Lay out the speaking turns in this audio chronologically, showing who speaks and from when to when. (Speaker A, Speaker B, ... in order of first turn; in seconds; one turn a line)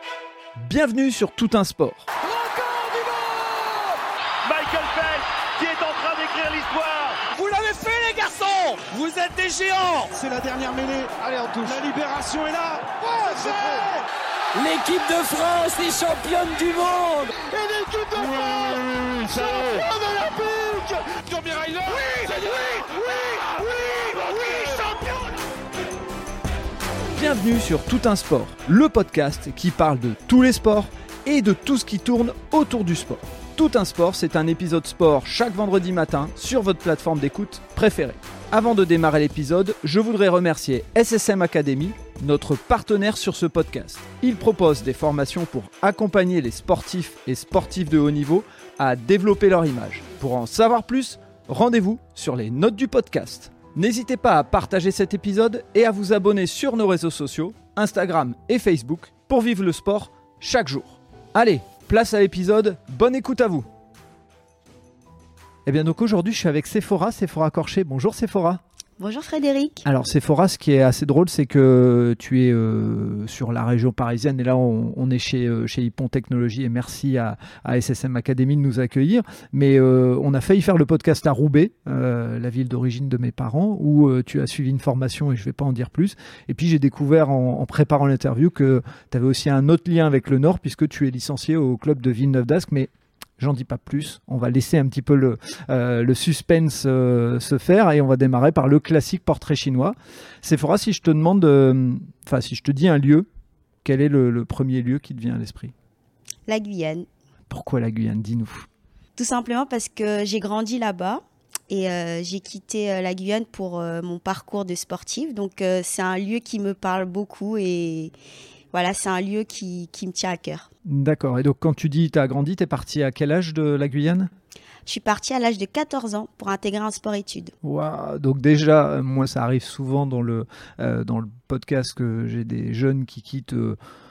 Speaker A: 0.6-2.1
Speaker B: 2.2-4.0
Speaker C: 4.4-14.0
Speaker B: 14.6-17.4
Speaker C: 17.5-25.2
Speaker A: 27.1-63.7
Speaker A: 65.7-68.6
Speaker D: 69.0-69.9
Speaker A: 69.8-103.3
Speaker A: 103.8-105.7
Speaker D: 106.5-107.1
Speaker A: 107.5-108.7
Speaker D: 109.2-118.1
Speaker D: 118.7-120.7
Speaker A: 120.8-124.3
Speaker D: 124.9-127.5
Speaker A: 127.6-133.8